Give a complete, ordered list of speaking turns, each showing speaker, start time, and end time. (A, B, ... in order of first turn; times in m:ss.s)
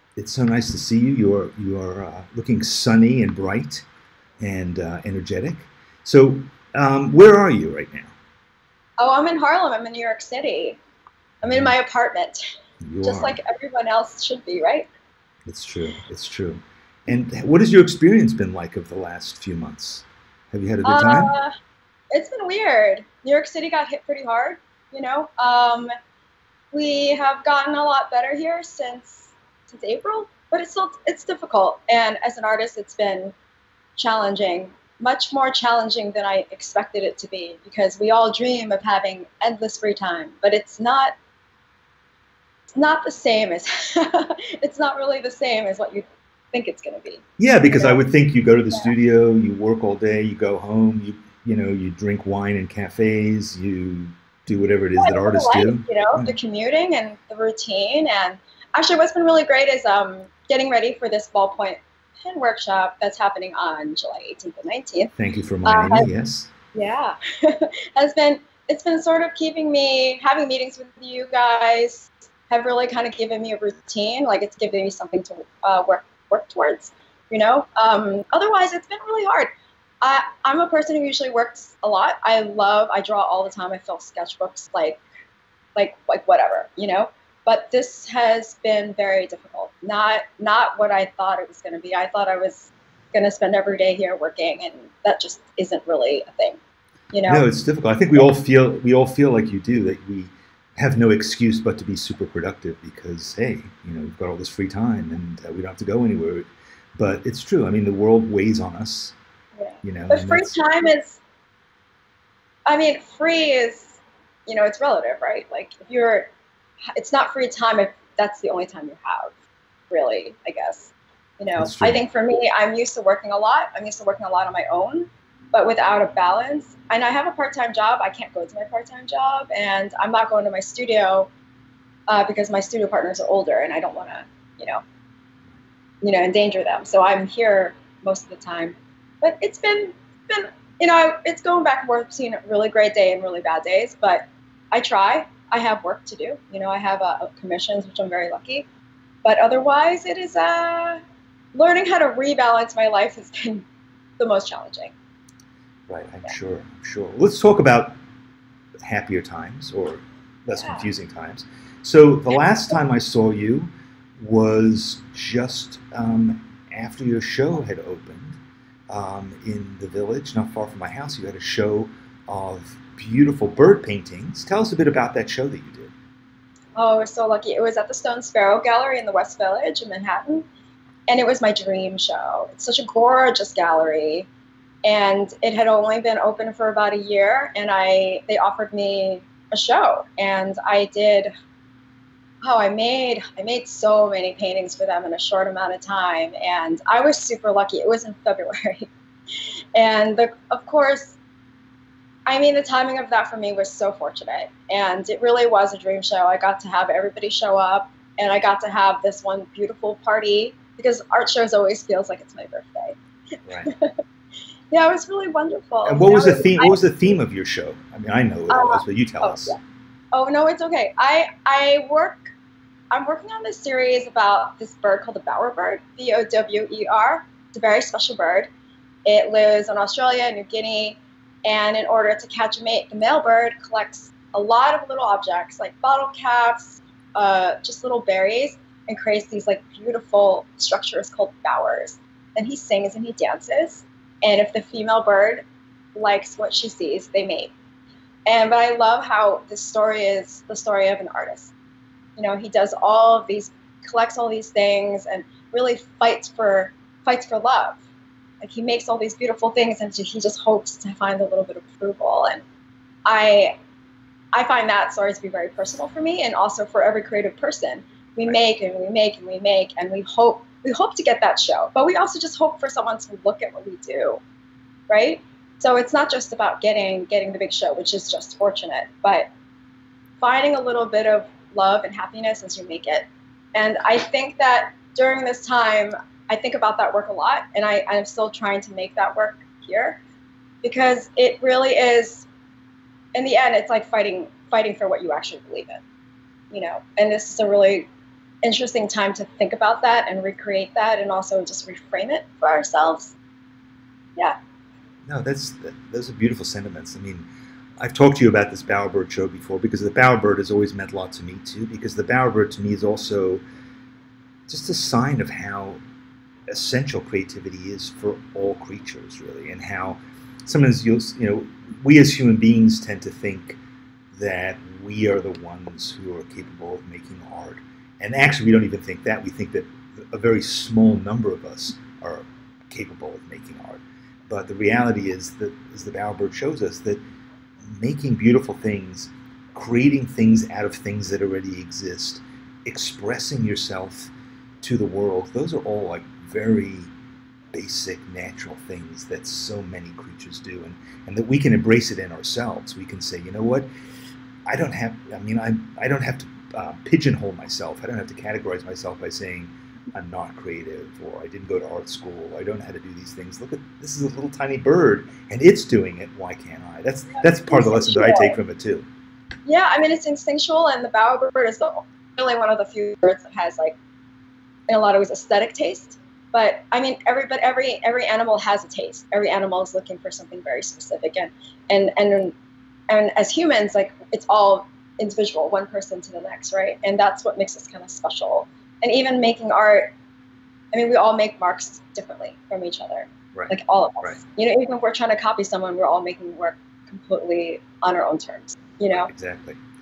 0:00.2-0:03.8 A
0:04.4-0:08.1 A
0:09.0-0:10.8 B
0:11.4-0:12.4 B
0:11.4-0:11.8 A
0:12.8-0:13.4 A
0:13.0-0:14.9 B
0:15.4-0:21.3 A
0:20.8-0:21.5 B
0:22.1-0:25.9 B
0:26.7-0:33.3 B
0:34.0-0:41.1 B
0:42.7-0:48.0 B
0:47.4-0:56.4 A
0:55.0-1:05.1 B
1:05.2-1:06.5 A
1:05.6-1:06.1 B
1:06.7-1:19.5 B
1:20.0-1:25.0 B
1:25.8-1:36.6 B
1:37.1-1:37.4 B
1:37.2-1:49.1 A
1:49.6-1:51.2 B
1:49.8-1:50.6 A
1:52.6-1:56.3 B
1:57.0-1:59.3 B
1:59.9-2:11.3 B
2:01.6-2:02.0 A
2:12.1-2:14.8 B
2:16.0-2:28.7 B
2:29.2-2:31.0 B
2:31.5-2:33.6 B
2:34.2-2:34.9 B
2:35.9-2:38.0 A
2:38.8-2:55.9 A
2:40.5-2:40.9 B
2:56.8-3:00.5 B
3:01.1-3:04.3 B
3:04.8-3:11.3 B
3:12.4-3:18.9 B
3:19.7-3:21.2 B
3:22.2-3:33.0 B
3:33.4-3:33.7 A
3:33.6-3:34.0 B
3:34.7-3:36.8 B
3:35.8-3:39.6 A
3:38.5-3:39.6 B
3:40.1-3:42.3 B
3:42.9-3:48.5 B
3:49.0-4:05.4 B
4:05.9-4:07.5 B
4:08.3-4:11.5 B
4:12.2-4:17.8 B
4:18.4-4:22.4 B
4:23.0-4:23.5 B
4:24.3-4:34.2 B
4:34.9-4:39.3 B
4:40.2-4:50.0 B
4:50.6-4:52.3 B
4:53.1-4:55.8 B
4:56.5-4:57.9 B
4:58.4-5:03.1 B
5:05.0-5:07.3 A
5:07.8-5:13.4 A
5:14.5-5:15.8 A
5:16.5-5:23.6 A
5:24.1-5:37.0 A
5:37.6-5:46.9 A
5:47.5-5:53.7 A
5:54.5-6:08.9 A
6:07.2-6:08.4 B
6:09.4-6:13.8 B
6:14.7-6:22.3 B
6:22.9-6:29.9 B
6:30.7-6:39.1 B
6:33.3-6:34.2 A
6:38.9-6:39.6 A